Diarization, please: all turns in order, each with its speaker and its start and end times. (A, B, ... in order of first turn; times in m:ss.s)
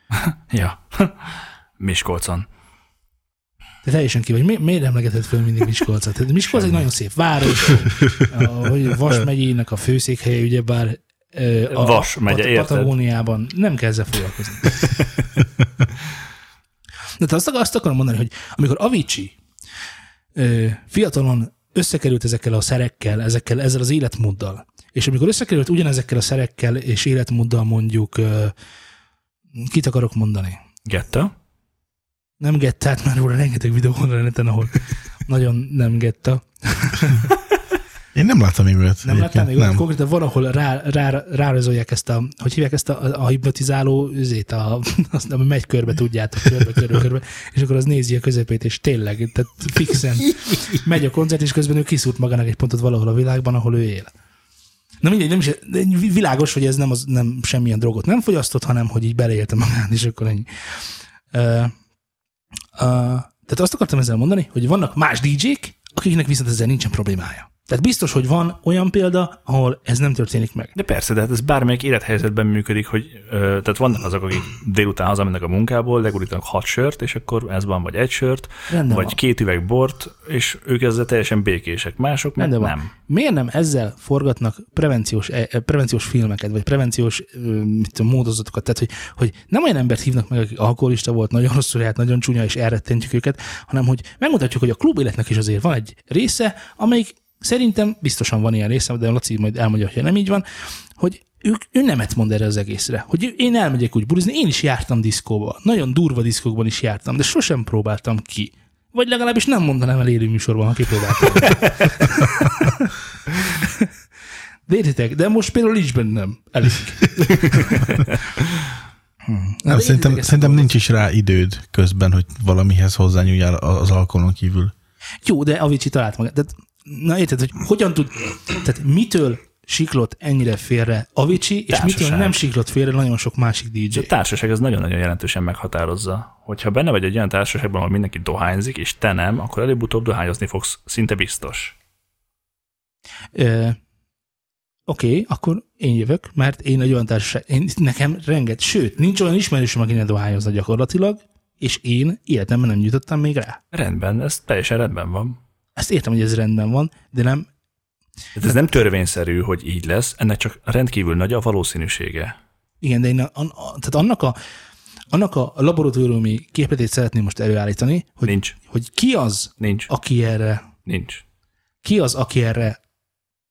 0:00.1-0:02.5 A
0:03.8-0:14.8 B
0:11.7-0:12.9 A
0:17.2-0:19.4 B
0:20.4-0:28.5 B
0:29.5-0:30.6 B
0:30.8-0:31.3 A
0:32.4-0:37.3 B
0:38.1-0:39.8 C
0:39.0-0:54.1 B
0:55.0-1:00.5 B
1:01.3-1:01.7 B
1:02.8-1:10.7 B
1:10.7-1:22.9 A
1:18.7-1:19.2 B
1:22.4-1:40.4 B
1:41.0-1:52.9 B
1:53.6-1:53.9 B
1:54.7-1:58.1 B
1:59.2-2:00.7 B
1:59.7-2:04.7 C
2:05.2-2:14.1 B
2:11.7-2:12.4 A
2:13.9-2:21.7 A
2:23.3-2:23.8 B
2:24.9-2:33.6 B
2:33.7-2:35.4 A
2:35.8-2:37.5 B
2:38.3-2:42.3 A
2:42.8-2:44.3 B
2:45.1-2:50.7 B
2:48.2-2:48.5 A
2:49.6-2:49.9 A
2:50.8-2:51.2 A
2:51.8-2:52.8 B